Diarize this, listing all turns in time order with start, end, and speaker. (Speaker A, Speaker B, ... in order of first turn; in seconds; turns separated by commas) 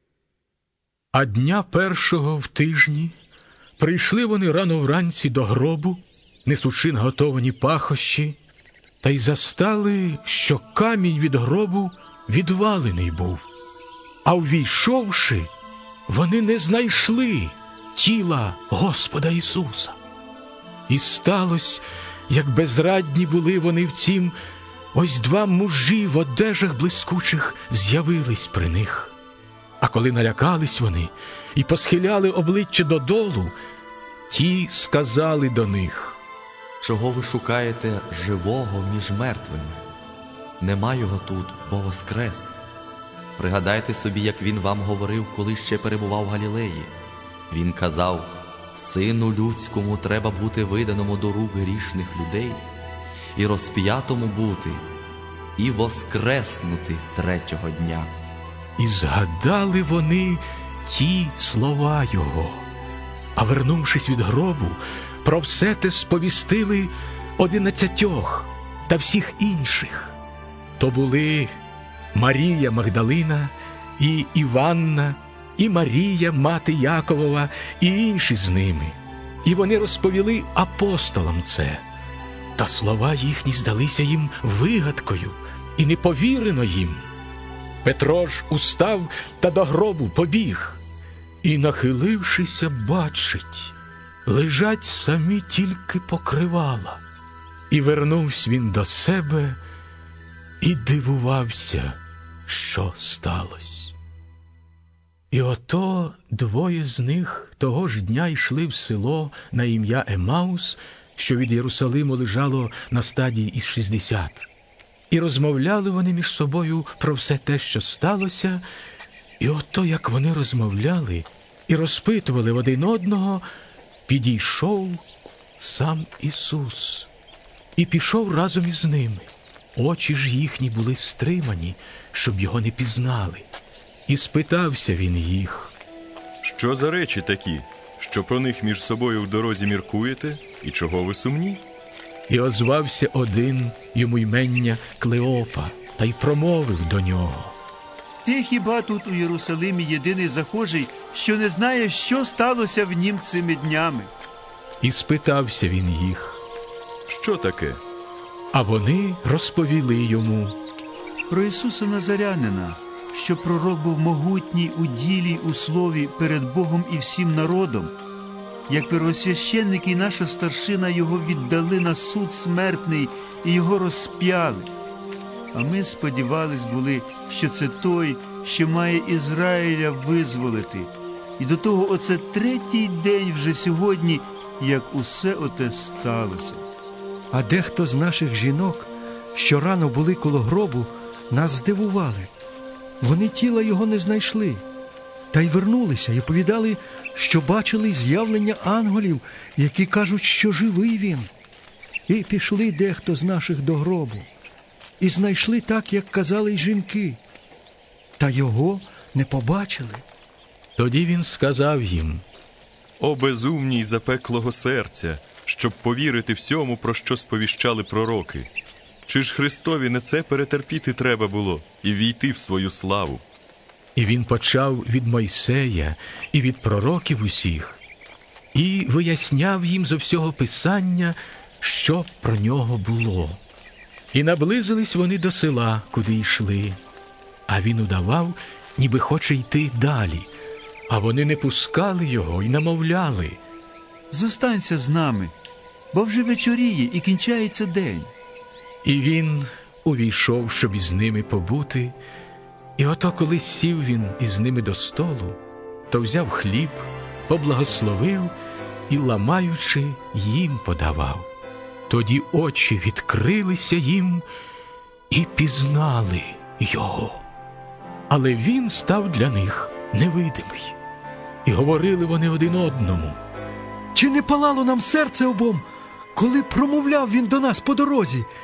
Speaker A: 1.1-3.1, Speaker A: 3.8-8.4, Speaker A: 9.0-13.4, Speaker A: 14.2-15.5, Speaker A: 16.1-20.0, Speaker A: 20.9-24.4, Speaker A: 24.9-29.1, Speaker A: 29.8-33.5, Speaker A: 34.3-36.2, Speaker B: 36.8-39.8, Speaker B: 40.6-42.5, Speaker B: 43.4-46.9, Speaker B: 47.5-52.6, Speaker B: 53.4-54.8, Speaker B: 55.6-58.1, Speaker A: 58.8-62.6, Speaker A: 63.4-70.2, Speaker A: 70.8-71.5, Speaker A: 72.1-81.8, Speaker A: 82.6-87.1, Speaker A: 87.8-90.8, Speaker A: 91.4-93.7, Speaker A: 94.3-97.0, Speaker A: 97.7-99.6, Speaker A: 100.6-103.9, Speaker A: 105.3-114.5, Speaker A: 115.1-118.6, Speaker A: 119.4-123.4, Speaker A: 124.1-125.0, Speaker A: 125.6-127.1, Speaker A: 127.8-133.5, Speaker A: 134.1-135.7, Speaker C: 136.4-141.6, Speaker A: 142.3-147.6, Speaker D: 148.2-154.1, Speaker A: 154.8-156.4, Speaker C: 157.1-157.8, Speaker A: 158.5-160.6, Speaker D: 161.3-167.9, Speaker D: 168.7-174.7, Speaker D: 175.5-186.6, Speaker E: 187.3-192.3, Speaker E: 193.0-194.6, Speaker E: 195.3-201.3, Speaker E: 202.1-204.3, Speaker E: 205.0-207.2, Speaker E: 208.2-210.0, Speaker A: 210.8-212.2, Speaker C: 213.0-218.5, Speaker C: 219.1-223.2, Speaker A: 224.0-227.8, Speaker A: 228.5-233.4, Speaker A: 234.1-236.8, Speaker A: 237.5-240.3, Speaker A: 240.9-243.4, Speaker D: 244.1-245.3, Speaker D: 245.9-248.1, Speaker A: 248.8-252.0, Speaker A: 252.8-258.3, Speaker A: 258.9-261.3, Speaker A: 261.9-264.2, Speaker A: 265.1-267.2, Speaker A: 268.1-270.8, Speaker A: 271.4-273.2, Speaker E: 273.9-278.3